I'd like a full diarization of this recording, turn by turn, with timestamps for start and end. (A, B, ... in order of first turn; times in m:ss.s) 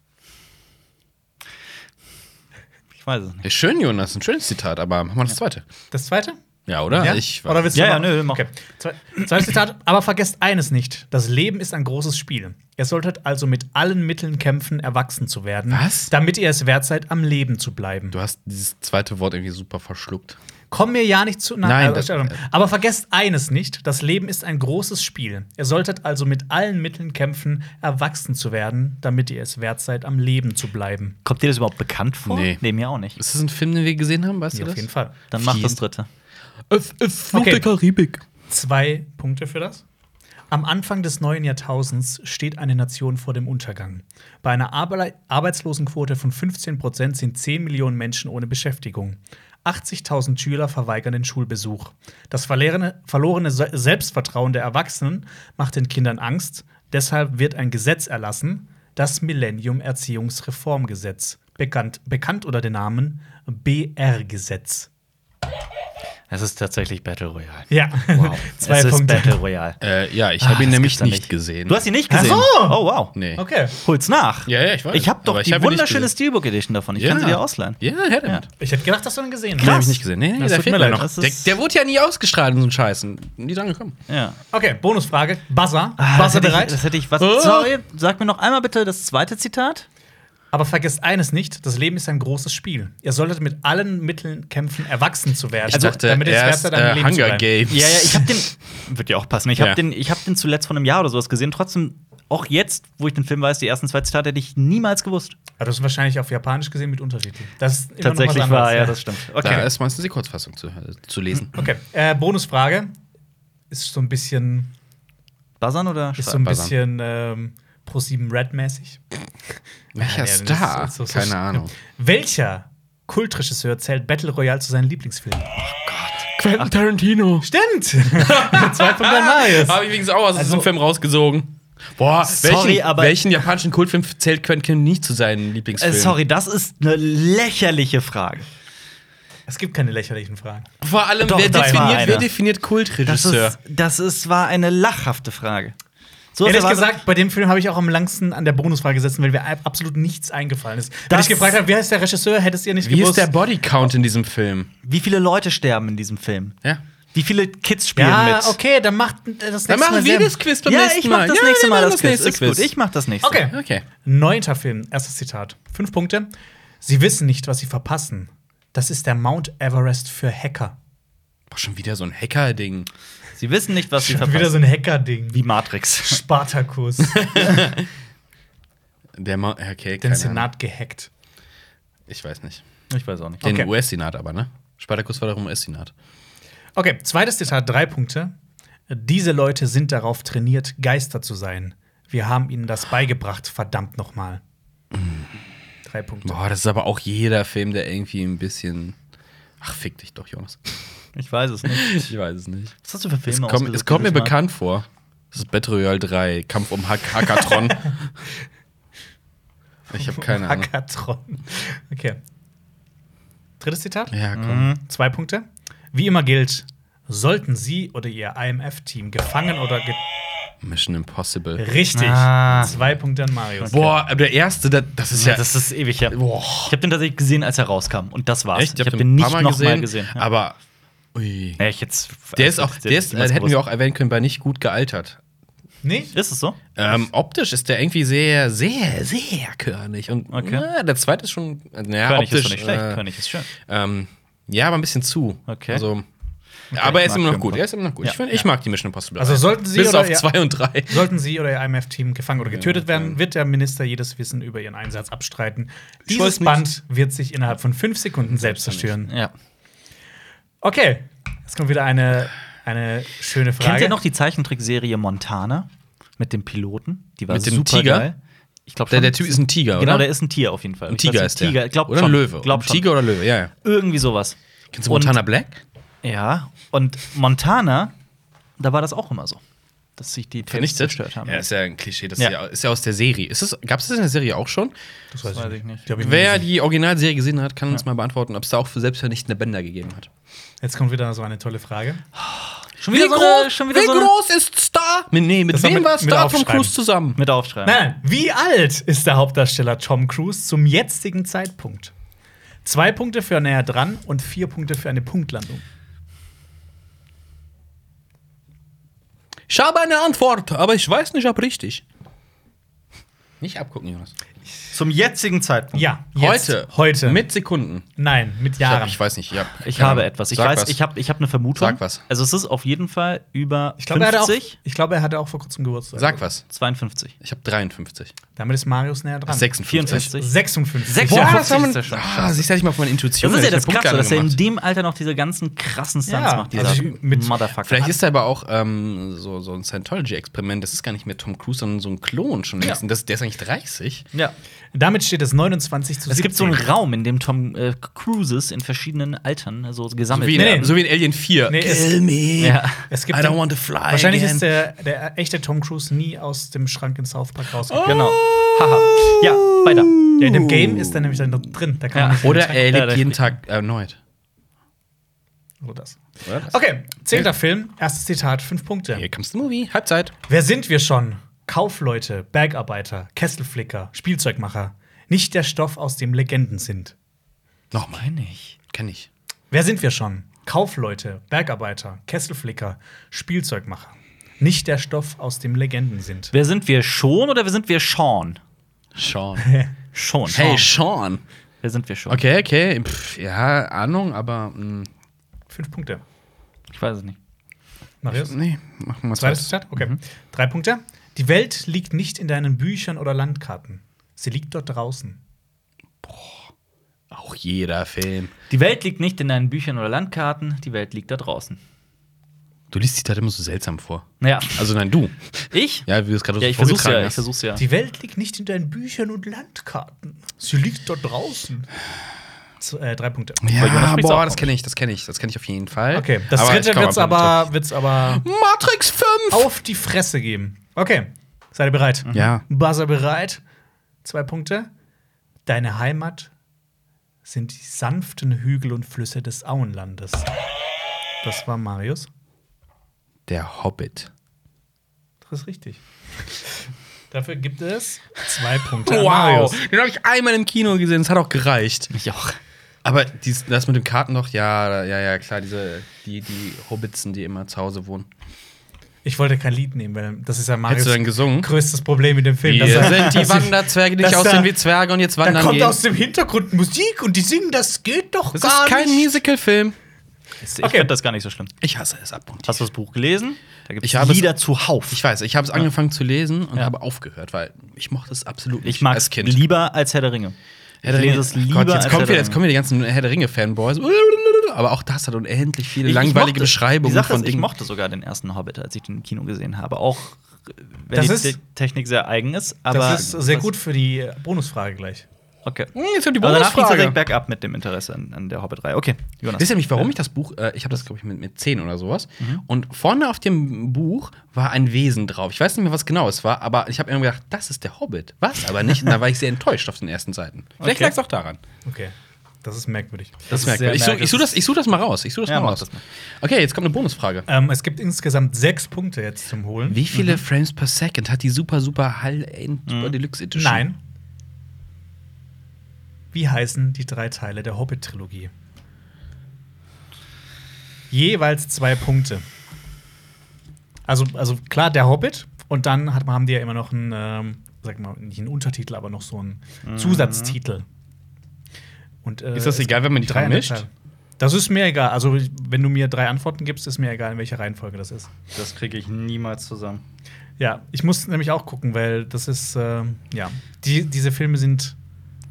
0:03.0-0:03.4 A
0:03.4-0:05.7 B
0:05.9-0:06.4 C
0:06.7-0:07.7 B
0:06.9-0:18.2 C
0:07.7-0:08.4 A
0:15.7-0:16.1 B
0:18.1-0:20.4 B
0:20.7-0:31.2 C
0:21.6-0:22.4 B
0:31.2-0:33.2 A
0:32.3-0:32.6 B
0:33.2-0:34.9 B
0:34.5-0:35.2 C
0:35.3-0:36.1 A
0:35.4-0:35.8 B
0:36.7-0:38.2 B
0:37.3-0:37.6 C
0:38.5-0:39.8 C
0:40.5-1:04.9 C
1:06.3-1:09.8 A
1:07.7-1:09.4 C
1:09.8-1:11.8 B
1:10.4-1:13.2 A
1:12.1-1:13.8 C
1:13.2-1:13.4 B
1:13.8-1:18.4 A
1:14.5-1:16.1 B
1:17.0-1:18.4 B
1:18.6-1:21.0 C
1:19.6-1:24.0 B
1:19.6-1:20.0 A
1:20.8-1:21.6 A
1:24.1-1:24.4 A
1:24.5-1:26.8 C
1:26.0-1:29.9 A
1:27.2-1:27.7 B
1:30.5-1:37.5 C
1:35.7-1:38.4 B
1:37.7-1:45.4 A
1:45.6-1:49.0 C
1:48.0-1:49.7 A
1:49.4-1:51.7 B
1:51.6-1:52.9 C
1:53.7-1:54.7 C
1:55.6-1:56.5 A
1:56.2-1:59.0 C
1:56.4-1:56.7 B
2:00.0-2:01.7 B
2:00.0-2:05.6 C
2:05.6-2:06.6 A
2:06.4-2:07.5 B
2:07.4-2:09.8 C
2:08.1-2:16.2 B
2:12.2-2:13.2 A
2:15.8-2:18.5 A
2:19.5-2:20.7 C
2:20.8-2:23.6 B
2:21.2-2:22.3 A
2:21.3-2:22.2 C
2:23.0-2:25.8 A
2:26.4-2:26.9 A
2:26.4-2:33.3 C
2:31.1-2:31.6 A
2:32.8-2:34.7 B
2:34.8-2:36.6 A
2:37.1-2:38.6 A
2:38.0-2:40.4 C
2:39.7-2:42.7 B
2:40.6-2:43.4 A
2:43.2-2:46.3 C
2:43.4-2:43.8 B
2:46.8-2:50.8 C
2:51.5-2:52.9 B
2:53.4-2:54.6 A
2:54.0-2:55.4 C
2:55.3-2:56.2 A
2:56.0-2:57.6 C
2:57.1-2:57.9 B
2:59.2-3:00.5 B
3:00.0-3:01.1 C
3:02.1-3:02.6 B
3:02.9-3:03.5 A
3:03.4-3:05.9 B
3:06.8-3:08.3 C
3:08.9-3:14.4 C
3:14.9-3:15.3 B
3:15.8-3:16.4 C
3:16.2-3:19.0 B
3:19.6-3:20.8 B
3:21.2-3:22.1 A
3:21.7-3:22.8 B
3:22.8-3:24.4 A
3:23.3-3:28.1 B
3:29.9-3:32.2 C
3:29.9-3:30.7 B
3:33.6-3:34.2 C
3:34.1-3:34.7 B
3:34.4-3:34.8 A
3:34.8-3:40.0 C
3:40.6-3:41.6 B
3:41.6-3:43.9 C
3:41.9-3:42.8 A
3:43.6-3:43.9 A
3:43.7-3:45.5 B
3:45.1-3:50.2 A
3:46.1-3:46.8 B
3:48.5-3:50.6 B
3:51.2-3:51.6 B
3:51.6-3:53.6 A
3:52.4-3:55.2 B
3:55.8-3:56.1 C
3:56.1-3:56.6 A
3:56.8-4:06.1 B
4:00.3-4:00.7 A
4:02.0-4:03.5 A
4:05.5-4:05.8 A
4:06.7-4:11.1 B
4:06.7-4:08.2 A
4:09.2-4:10.4 C
4:10.9-4:19.1 C
4:12.5-4:13.2 B
4:16.1-4:16.6 B
4:18.2-4:19.0 B
4:20.6-4:24.0 C
4:23.6-4:28.2 A
4:27.3-4:28.1 B
4:28.7-4:32.9 A
4:28.9-4:30.1 B
4:30.9-4:33.5 B
4:33.6-4:34.4 A
4:34.7-4:35.6 B
4:34.9-4:35.2 A
4:36.0-4:37.9 A
4:38.6-4:39.4 A
4:40.0-4:41.5 A
4:40.4-4:44.7 B
4:45.1-4:46.5 C
4:45.3-4:45.8 A
4:46.0-4:50.1 B
4:50.6-4:52.0 C
4:52.3-4:54.1 A
4:52.9-4:57.2 B
4:55.5-4:56.7 C
4:57.2-4:57.8 A
4:57.6-5:01.9 C
5:02.6-5:05.6 C
5:09.5-5:11.8 B
5:13.4-5:14.1 B
5:14.7-5:15.9 A
5:15.7-5:17.2 C
5:16.2-5:17.9 B
5:18.0-5:19.0 C
5:18.6-5:20.8 B
5:19.6-5:24.6 A
5:21.6-5:22.0 B
5:23.8-5:26.2 C
5:26.0-5:26.4 B
5:26.5-5:27.1 A
5:27.2-5:28.1 B
5:28.4-5:31.5 C
5:29.3-5:30.1 B
5:29.7-5:30.3 A
5:30.9-5:32.5 A
5:31.0-5:34.4 B
5:33.2-5:38.0 A
5:36.1-5:37.4 C
5:37.6-5:44.0 B
5:44.7-5:46.7 C
5:46.1-5:50.6 A
5:50.1-5:54.5 B
5:50.3-5:50.8 C
5:51.5-5:52.0 C
5:52.4-5:52.8 A
5:52.9-5:58.0 C
5:57.7-6:01.3 B
5:57.8-6:00.1 A
6:00.2-6:02.7 C
6:01.9-6:03.2 A
6:02.2-6:04.0 B
6:05.6-6:09.1 C
6:06.3-6:06.5 B
6:08.9-6:10.1 B
6:10.3-6:17.0 C
6:17.7-6:18.1 B
6:17.8-6:18.6 A
6:18.7-6:19.1 B
6:19.5-6:26.3 C
6:26.3-6:28.4 A
6:29.0-6:29.5 B
6:29.4-6:29.7 C
6:29.9-6:30.7 A
6:30.3-6:31.2 B
6:31.6-6:32.2 A
6:32.1-6:34.9 B
6:35.5-6:36.0 C
6:36.7-6:37.2 A
6:38.0-6:38.4 C
6:38.1-6:39.5 B
6:39.2-6:45.2 C
6:46.0-6:46.4 B
6:47.1-6:48.3 B
6:48.5-6:51.6 A
6:52.7-6:55.2 B
6:54.2-6:54.7 A
6:55.5-6:55.9 A
6:55.9-6:57.2 B
6:56.4-6:57.6 A
6:57.6-7:01.7 C
7:02.6-7:03.6 C
7:03.4-7:09.5 B
7:03.5-7:04.5 A
7:05.9-7:08.2 C
7:09.3-7:13.4 C
7:12.1-7:12.4 B
7:14.0-7:14.7 C
7:15.5-7:16.3 C
7:17.2-7:20.3 C
7:21.2-7:22.1 C
7:23.3-7:24.1 B
7:25.3-7:25.8 C
7:27.1-7:29.6 C
7:28.8-7:31.9 B
7:31.9-7:32.4 A
7:32.8-7:38.1 B
7:39.0-7:44.5 C
7:40.7-7:41.5 B
7:42.4-7:45.8 B
7:45.2-7:49.2 C
7:48.3-7:49.8 B
7:50.4-7:51.5 A
7:50.6-7:50.9 C
7:51.6-7:52.6 B
7:52.4-7:55.0 A
7:53.8-7:54.3 B
7:54.9-7:59.4 B
7:58.6-8:02.4 A
8:00.8-8:07.5 B
8:05.8-8:13.5 A
8:10.9-8:11.4 C
8:12.7-8:15.0 C
8:12.9-8:13.2 B
8:15.4-8:19.9 A
8:15.7-8:17.0 B
8:19.4-8:31.4 B
8:30.6-8:31.0 A
8:31.6-8:33.3 C
8:33.3-8:34.4 A
8:33.3-8:35.7 B
8:35.3-8:35.8 A
8:36.2-8:37.3 B
8:37.3-8:39.8 C
8:39.7-8:43.6 B
8:40.0-8:40.2 A
8:42.7-8:43.0 A
8:43.4-8:43.8 C
8:46.1-8:48.3 C
8:50.9-8:52.2 C
8:53.9-9:00.6 C
8:59.6-9:00.4 A
9:02.0-9:08.1 C
9:02.4-9:03.6 B
9:08.4-9:09.8 A
9:10.4-9:14.8 C